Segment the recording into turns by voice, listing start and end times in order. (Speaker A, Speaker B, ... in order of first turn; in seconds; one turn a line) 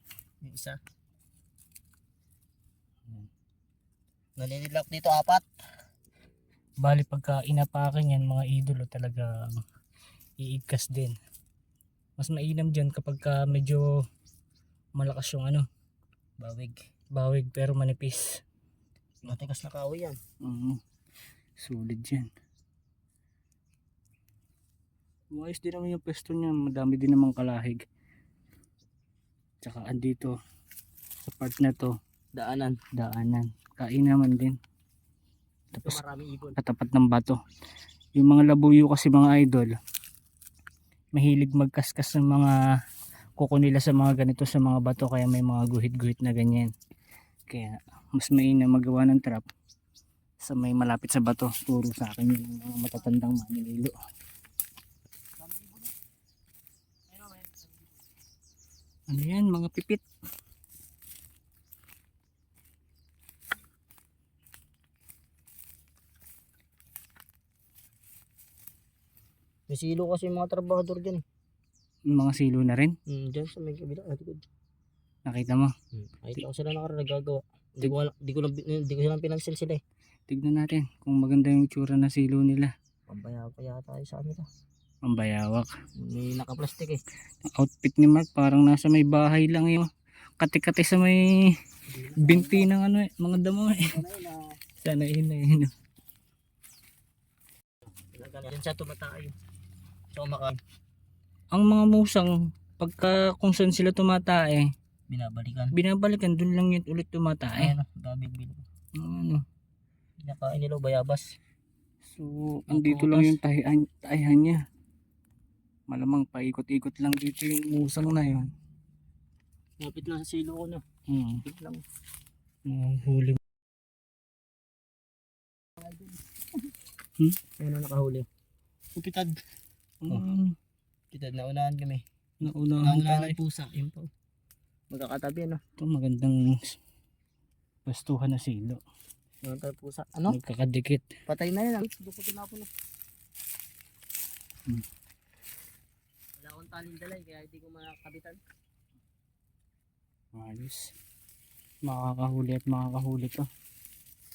Speaker A: 0.4-0.8
Speaker A: 4.4-5.5
Speaker B: 6.8-9.3
Speaker B: 10.4-11.2
Speaker B: 12.2-13.9
Speaker B: 15.0-15.7
Speaker A: 16.4-16.8
Speaker B: 17.1-18.3
Speaker A: 19.2-20.2
Speaker B: 20.4-20.8
Speaker B: 21.6-22.3
Speaker B: 25.3-27.8
Speaker B: 29.6-30.3
Speaker B: 31.2-31.9
Speaker A: 32.3-32.8
Speaker B: 32.9-34.6
Speaker A: 35.7-36.6
Speaker B: 35.8-36.0
Speaker B: 36.6-37.4
Speaker B: 38.2-39.8
Speaker B: 41.1-42.6
Speaker B: 43.4-46.7
Speaker B: 47.5-49.5
Speaker B: 50.4-53.9
Speaker A: 55.4-55.9
Speaker A: 57.1-58.0
Speaker B: 59.1-60.0
Speaker A: 69.7-71.2
Speaker B: 72.1-72.9
Speaker A: 73.1-74.4
Speaker B: 75.3-75.7
Speaker A: 75.9-79.8
Speaker B: 80.3-82.7
Speaker A: 83.1-84.5
Speaker B: 85.0-85.7
Speaker A: 86.0-87.0
Speaker B: 87.5-89.9
Speaker B: 90.4-91.2
Speaker A: 91.9-92.7
Speaker B: 92.2-94.0
Speaker A: 93.9-94.5
Speaker B: 94.8-95.7
Speaker A: 98.1-99.3
Speaker A: 100.1-100.6
Speaker B: 101.5-104.7
Speaker A: 105.1-105.8
Speaker B: 105.7-107.7
Speaker A: 107.5-108.6
Speaker B: 109.0-109.4
Speaker A: 110.2-111.3
Speaker B: 112.1-114.6
Speaker A: 112.7-113.4
Speaker B: 115.9-118.5
Speaker A: 119.8-120.8
Speaker B: 121.1-121.4
Speaker A: 121.4-121.8
Speaker B: 122.7-123.4
Speaker A: 125.8-126.2
Speaker A: 127.6-128.3
Speaker A: 128.9-129.4
Speaker B: 130.0-130.5
Speaker A: 131.1-132.0
Speaker B: 132.4-133.4
Speaker A: 132.8-134.1
Speaker A: 134.9-135.6
Speaker B: 135.8-136.8
Speaker B: 137.8-138.8
Speaker A: 139.4-140.4
Speaker B: 140.3-141.1
Speaker A: 141.3-142.7
Speaker A: 146.4-148.4
Speaker B: 150.3-150.9
Speaker B: 151.8-153.4